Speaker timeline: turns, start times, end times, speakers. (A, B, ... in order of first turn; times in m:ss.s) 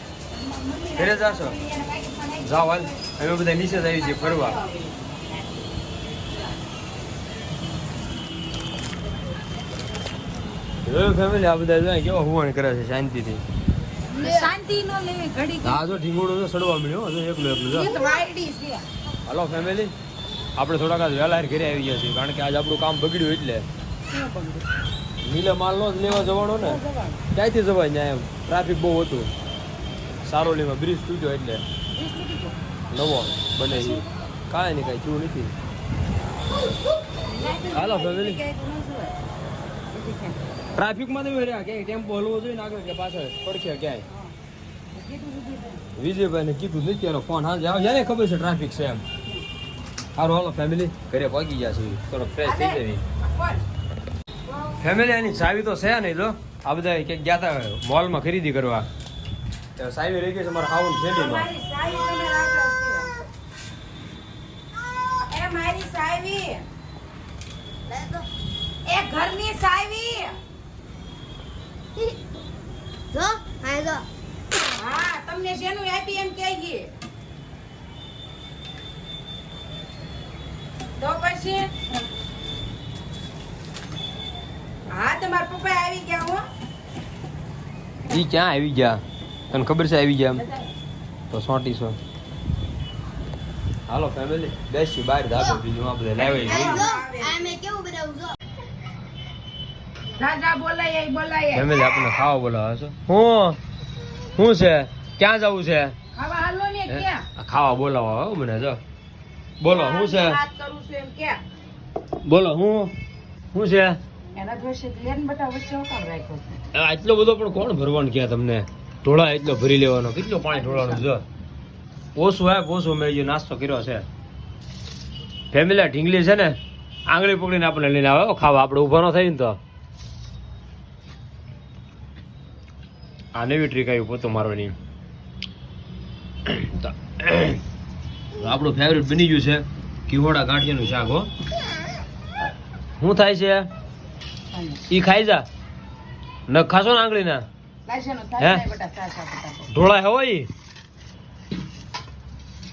0:00.3-0:03.0 A
0:00.9-0:01.6 B
0:02.4-0:04.6 B
0:03.9-0:05.5 A
0:10.8-0:13.4 B
0:14.1-0:15.8 A
0:14.1-0:14.5 C
0:15.6-0:17.9 B
0:17.7-0:18.2 C
0:17.7-0:18.9 A
0:19.2-0:19.9 B
0:20.6-0:23.7 B
0:24.1-0:24.7 A
0:25.2-0:26.8 B
0:26.1-0:27.2 A
0:27.3-0:29.3 B
0:30.2-0:31.6 B
0:31.9-0:32.8 A
0:32.9-0:35.5 B
0:33.7-0:34.0 A
0:37.1-0:39.2 A
0:37.7-0:38.4 B
0:39.9-0:40.4 A
0:40.8-0:44.1 B
0:44.9-0:45.8 A
0:45.9-0:49.0 B
0:50.2-0:53.0 B
0:52.4-0:53.6 A
0:54.5-0:54.8 A
0:54.8-0:58.9 B
0:59.8-1:01.5 B
1:01.1-1:03.1 A
1:05.3-1:06.7 A
1:07.9-1:08.3 C
1:08.8-1:10.4 A
1:13.1-1:14.1 C
1:14.7-1:16.9 A
1:21.0-1:21.8 A
1:24.9-1:26.5 A
1:28.1-1:30.4 B
1:30.4-1:30.7 A
1:31.3-1:32.0 B
1:33.9-1:36.8 B
1:35.3-1:35.6 C
1:36.2-1:37.6 A
1:36.4-1:38.4 C
1:40.2-1:41.7 A
1:41.5-1:43.6 B
1:44.4-1:46.0 B
1:46.1-1:47.3 A
1:46.9-1:48.8 B
1:49.6-1:50.4 B
1:49.6-1:51.4 A
1:52.2-1:52.9 B
1:53.5-1:54.0 B
1:54.4-1:56.6 A
1:56.7-2:01.2 B
2:00.5-2:01.0 A
2:02.2-2:04.0 B
2:05.5-2:09.6 B
2:13.3-2:14.8 B
2:16.5-2:17.6 B
2:18.4-2:21.3 B
2:23.0-2:23.7 B
2:24.5-2:24.9 A
2:24.9-2:25.5 B
2:26.5-2:27.5 B
2:27.9-2:29.7 A
2:29.7-2:30.5 B